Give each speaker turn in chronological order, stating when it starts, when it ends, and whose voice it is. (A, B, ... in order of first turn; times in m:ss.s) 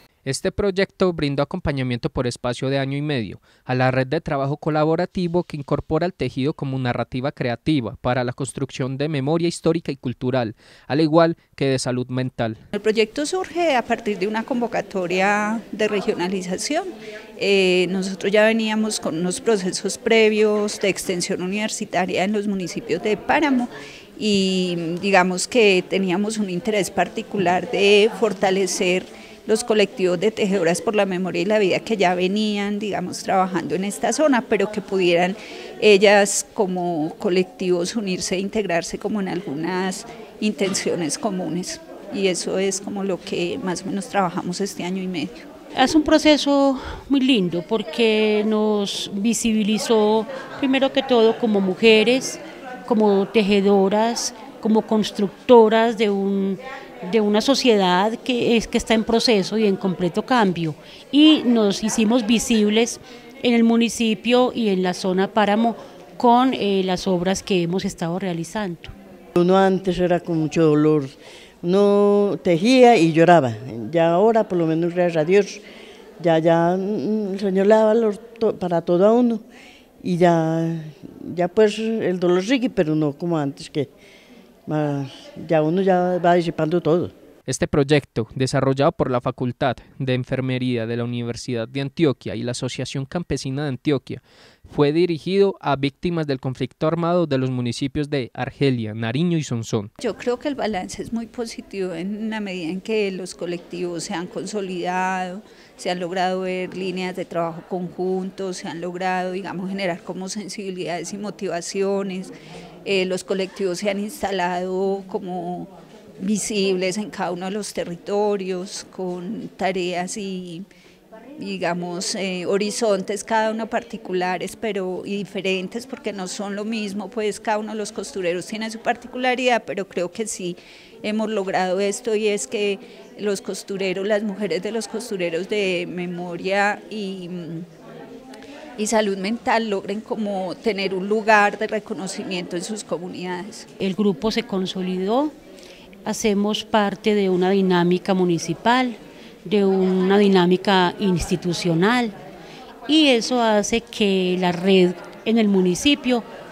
0:00.2-0:12.6 A
0:12.7-0:16.8 B
0:17.4-0:45.4 B
0:45.7-1:08.9 C
1:09.4-1:15.6 D
1:16.2-1:19.4 D
1:20.0-1:23.9 D
1:24.7-1:27.1 D
1:27.5-1:39.9 A
1:40.0-1:52.3 B
1:52.8-2:00.6 B
2:01.4-2:17.7 B
2:18.8-2:23.7 B
2:23.8-2:25.3 C
2:26.0-2:32.1 C
2:32.9-2:36.2 C